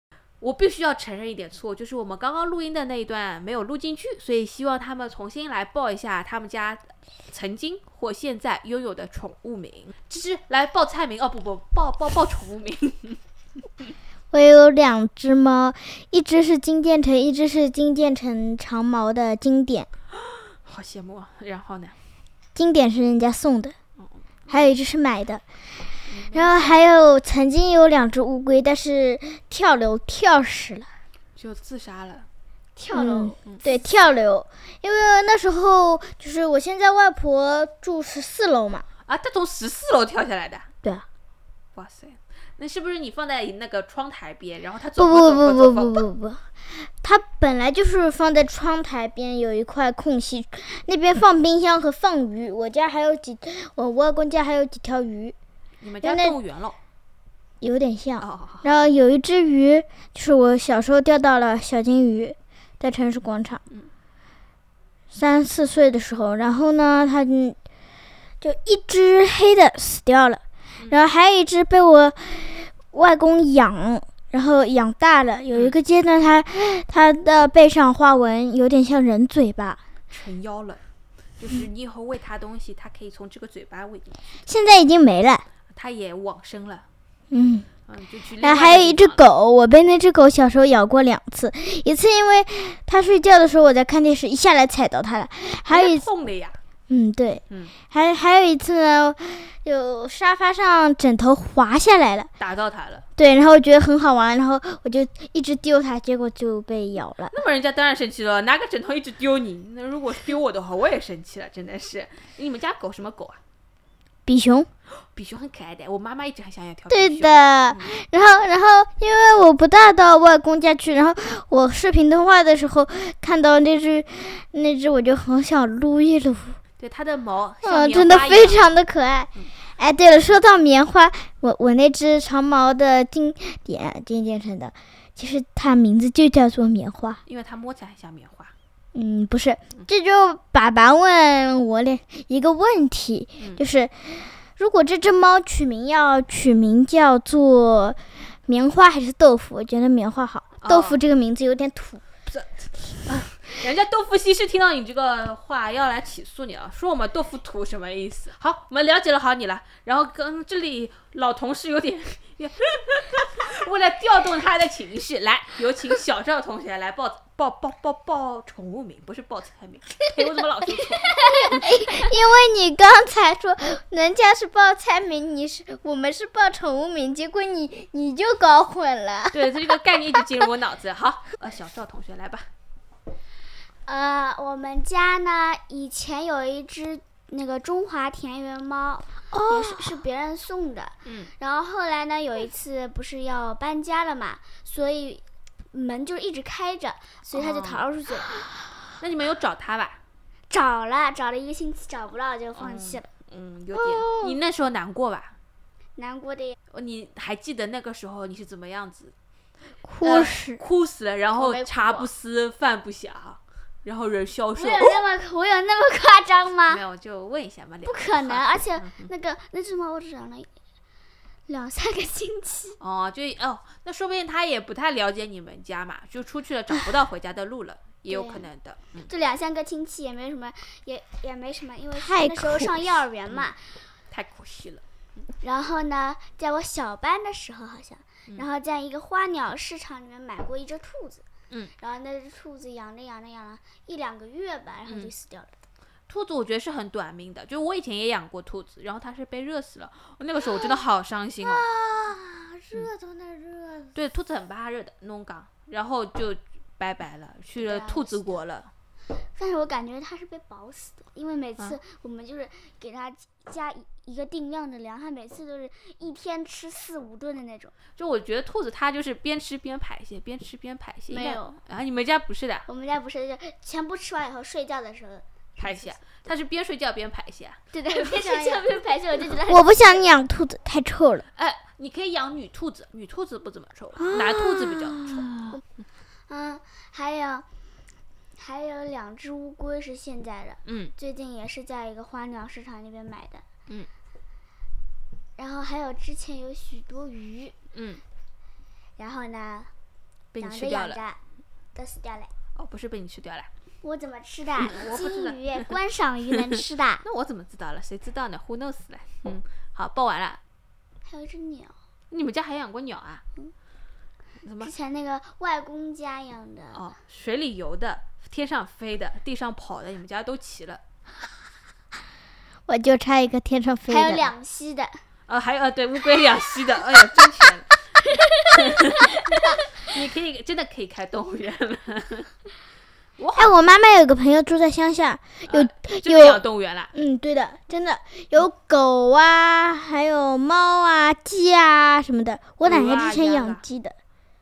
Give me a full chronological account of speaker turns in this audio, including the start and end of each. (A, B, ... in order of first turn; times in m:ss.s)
0:00.4-0:13.2 A
0:14.3-0:19.9 B
0:20.3-0:22.0 A
0:22.5-0:23.7 B
0:24.5-0:25.4 B
0:26.1-0:26.8 A
0:26.3-0:30.9 B
0:31.4-0:32.3 A
0:32.8-0:33.4 C
0:32.9-0:38.8 B
0:39.1-0:40.7 A
0:41.7-0:46.0 A
0:45.0-0:55.4 B
0:55.8-0:56.8 A
0:56.0-0:56.4 B
0:57.6-1:03.6 B
0:58.2-0:58.7 A
1:05.1-1:07.6 B
1:08.4-1:19.8 B
1:20.1-1:20.8 A
1:21.4-1:24.2 A
1:24.4-1:25.4 B
1:25.7-1:26.8 A
1:27.3-1:27.7 B
1:27.9-1:29.3 A
1:28.4-1:36.1 B
1:35.7-1:36.6 A
1:36.9-1:42.3 B
1:42.4-1:43.0 A
1:43.2-1:47.3 B
1:47.3-1:53.4 A
1:54.2-1:54.7 B
1:55.1-1:57.9 A
1:56.9-2:06.6 B
2:06.8-2:08.6 A
2:07.6-2:17.2 B
2:17.2-2:18.5 A
2:18.9-2:32.0 B
2:23.4-2:23.6 A
2:30.6-2:31.0 A
2:32.3-2:51.6 A
2:51.3-3:00.2 B
2:59.3-3:02.5 A
3:03.8-3:15.2 C
3:09.3-3:10.0 B
3:11.0-3:11.3 A
3:15.7-3:18.4 C
3:17.3-3:17.8 A
3:19.0-3:20.0 A
3:20.5-3:23.1 C
3:22.6-3:25.4 A
3:23.7-3:24.4 B
3:26.0-3:26.6 C
3:26.7-3:29.1 A
3:29.8-3:30.6 B
3:30.0-3:34.9 A
3:31.4-3:32.1 C
3:34.5-3:36.8 C
3:36.7-3:39.1 A
3:37.8-3:40.5 C
3:41.5-3:42.8 C
3:42.8-3:49.1 A
3:48.1-3:48.5 C
3:49.1-3:53.6 C
3:52.0-3:53.0 B
3:54.1-3:54.8 A
3:55.4-4:01.2 C
4:01.8-4:05.6 C
4:04.8-4:05.1 A
4:06.1-4:11.6 A
4:11.6-4:13.9 B
4:13.9-4:18.7 A
4:17.6-4:18.4 C
4:19.3-4:27.7 C
4:28.0-4:32.6 A
4:31.1-4:31.6 C
4:32.6-4:36.0 C
4:35.6-4:37.6 A
4:37.7-4:40.0 C
4:37.9-4:38.7 B
4:39.3-4:41.2 B
4:41.3-4:45.5 A
4:44.0-4:45.6 B
4:46.3-4:47.5 C
4:48.4-4:53.4 C
4:50.6-4:50.9 A
4:55.4-4:57.5 C
4:57.7-4:58.0 A
4:59.0-4:59.7 C
5:00.3-5:01.0 A
5:00.4-5:01.2 C
5:01.7-5:02.3 C
5:02.5-5:03.5 A
5:03.8-5:07.0 C
5:04.6-5:05.7 A
5:07.0-5:10.4 A
5:11.0-5:11.7 C
5:12.1-5:13.2 A
5:14.4-5:14.7 A
5:14.6-5:16.8 C
5:16.7-5:20.8 A
5:22.7-5:24.3 B
5:23.9-5:25.0 C
5:25.3-5:27.7 A
5:28.4-5:29.3 C
5:28.5-5:32.3 A
5:33.2-5:33.5 A
5:33.4-5:36.4 B
5:35.5-5:36.9 A
5:36.9-5:44.0 B
5:42.6-5:43.6 A